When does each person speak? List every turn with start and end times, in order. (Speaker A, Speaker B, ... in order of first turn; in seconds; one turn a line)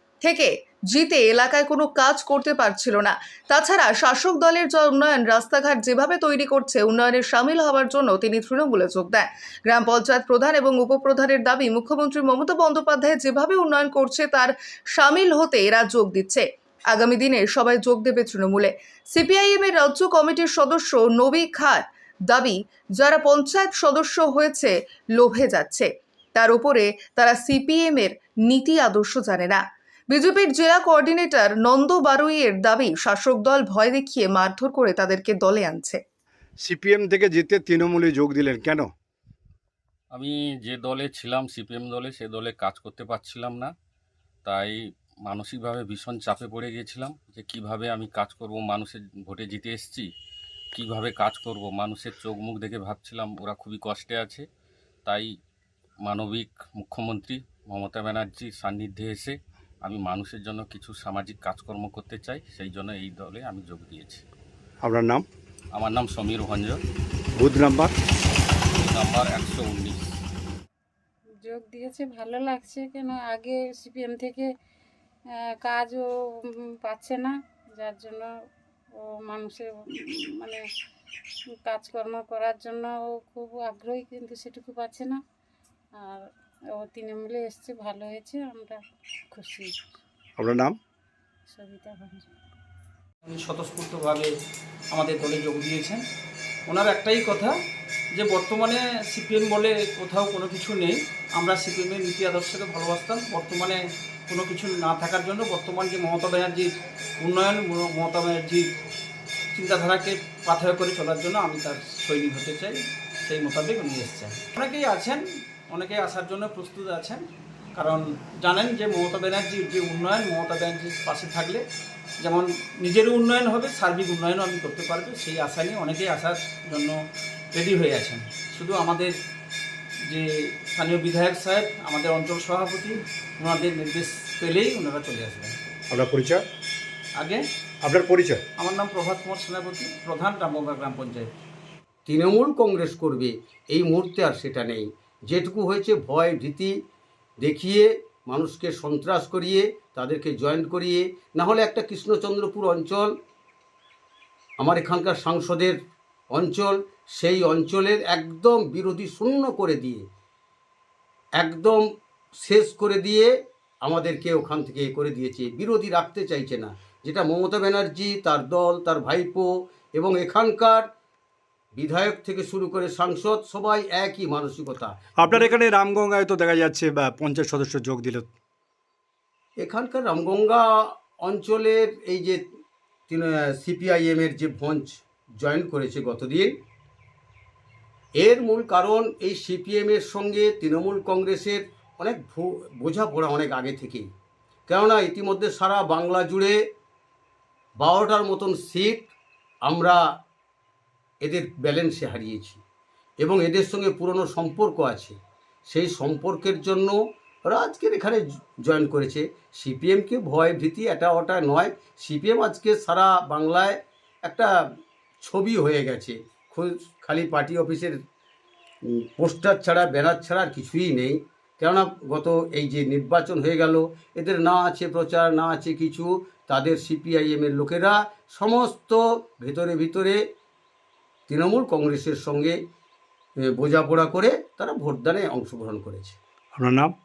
Speaker A: 0.2-36.0
Speaker B: 36.6-38.9
Speaker C: 40.1-43.7
Speaker C: 44.5-50.1
Speaker C: 50.8-54.5
Speaker C: 56.0-64.2
Speaker B: 64.8-65.3
Speaker C: 65.7-66.8
Speaker B: 67.4-67.9
Speaker C: 68.7-70.0
Speaker D: 71.4-74.5
Speaker D: 75.5-76.1
Speaker D: 76.8-78.3
Speaker D: 79.1-80.6
Speaker D: 81.7-85.2
Speaker D: 86.8-88.8
Speaker D: 89.3-89.7
Speaker B: 90.4-90.8
Speaker D: 91.5-92.3
Speaker E: 93.2-94.3
Speaker E: 94.9-96.1
Speaker E: 96.7-97.6
Speaker E: 98.1-108.8
Speaker E: 109.5-121.7
Speaker E: 122.2-129.2
Speaker E: 130.1-135.6
Speaker B: 135.9-136.5
Speaker E: 137.2-137.5
Speaker B: 137.8-138.4
Speaker E: 138.6-141.3
Speaker F: 142.1-146.7
Speaker F: 147.4-153.1
Speaker F: 154.6-155.8
Speaker F: 156.3-160.1
Speaker F: 161.4-161.8
Speaker F: 162.4-163.3
Speaker F: 163.8-170.8
Speaker F: 171.8-175.6
Speaker B: 175.2-178.3
Speaker F: 179.6-182.4
Speaker F: 183.1-186.5
Speaker F: 188.2-194.1
Speaker F: 194.7-196.6
Speaker F: 197.8-199.1
Speaker F: 199.7-200.0
Speaker F: 201.2-202.6
Speaker F: 203.2-205.2
Speaker F: 205.7-207.0
Speaker F: 207.5-214.5
Speaker F: 215.2-218.0
Speaker F: 218.9-230.2
Speaker F: 231.3-232.6
Speaker F: 233.5-236.2
Speaker B: 236.6-236.9